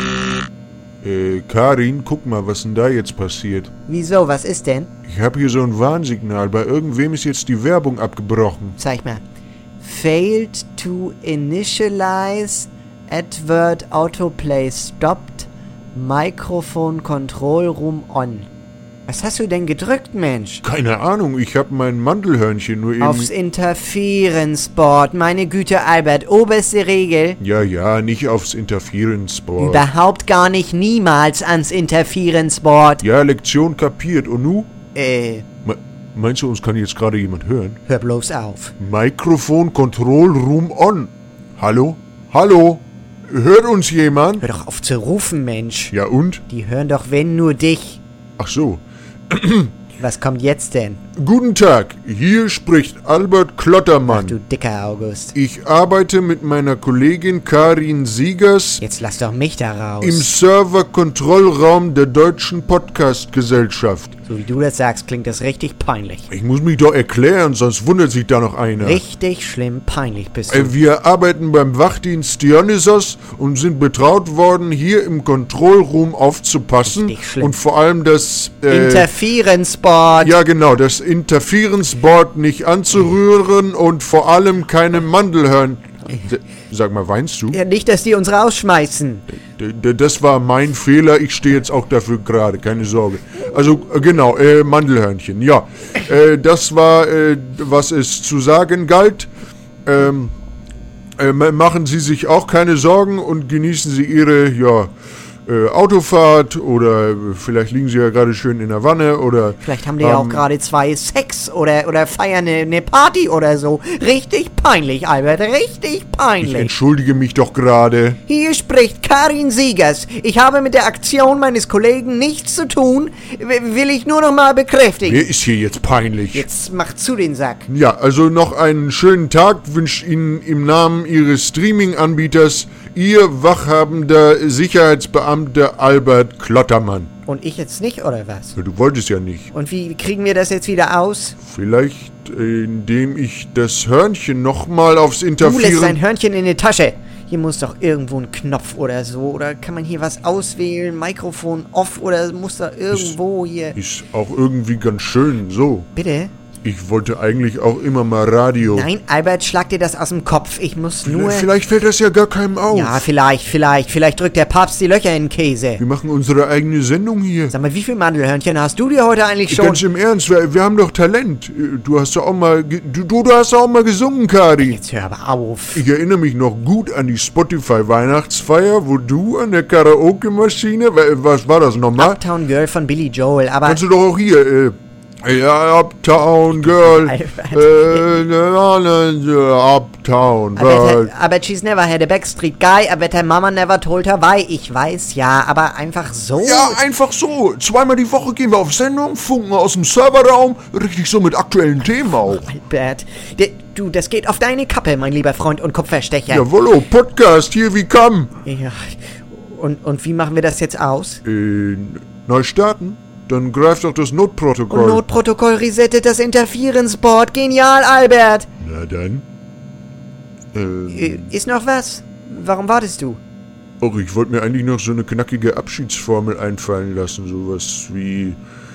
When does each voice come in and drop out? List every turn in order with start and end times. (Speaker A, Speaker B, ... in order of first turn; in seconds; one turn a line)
Speaker A: 1.0-3.7
Speaker B: 3.9-4.9
Speaker A: 5.0-8.8
Speaker B: 8.8-9.2
Speaker B: 9.8-18.5
Speaker B: 19.1-20.6
Speaker A: 20.6-23.3
Speaker B: 23.0-27.4
Speaker A: 27.4-29.9
Speaker B: 29.6-33.0
Speaker A: 33.0-34.7
Speaker B: 34.9-35.5
Speaker A: 35.6-37.8
Speaker B: 37.9-38.7
Speaker A: 38.8-44.4
Speaker B: 44.4-45.9
Speaker A: 45.9-46.4
Speaker B: 46.5-48.0
Speaker A: 48.4-49.8
Speaker B: 50.0-51.0
Speaker A: 51.2-54.4
Speaker B: 54.1-55.3
Speaker A: 55.3-58.8
Speaker B: 58.8-60.3
Speaker A: 60.0-64.1
Speaker B: 64.2-66.3
Speaker A: 66.3-69.0
Speaker B: 68.8-70.7
Speaker A: 70.5-79.1
Speaker B: 76.8-77.6
Speaker B: 78.7-80.3
Speaker A: 80.2-87.6
Speaker B: 87.5-89.3
Speaker A: 89.5-99.3
Speaker A: 99.8-100.3
Speaker A: 101.2-104.9
Speaker A: 105.5-110.5
Speaker B: 109.6-116.7
Speaker A: 116.4-118.2
Speaker B: 118.3-125.3
Speaker A: 125.0-126.5
Speaker B: 126.3-127.7
Speaker A: 127.7-137.1
Speaker B: 137.2-138.6
Speaker A: 138.6-139.5
Speaker B: 139.5-141.4
Speaker A: 141.4-146.0
Speaker B: 145.4-153.8
Speaker A: 152.9-153.2
Speaker A: 153.7-155.9
Speaker B: 155.9-156.3
Speaker A: 156.6-158.9
Speaker B: 158.7-161.5
Speaker A: 161.0-163.1
Speaker B: 162.7-165.8
Speaker A: 165.8-167.5
Speaker B: 167.5-169.8
Speaker A: 169.5-174.8
Speaker B: 174.6-175.8
Speaker A: 175.7-182.2
Speaker B: 181.9-183.8
Speaker A: 183.6-191.1
Speaker B: 186.5-188.2
Speaker B: 190.5-196.8
Speaker A: 196.4-202.5
Speaker B: 201.8-206.4
Speaker A: 206.3-208.3
Speaker B: 208.4-211.2
Speaker A: 211.2-215.0
Speaker B: 214.7-218.5
Speaker A: 218.6-219.2
Speaker A: 220.5-221.3
Speaker B: 220.9-223.2
Speaker A: 223.8-228.4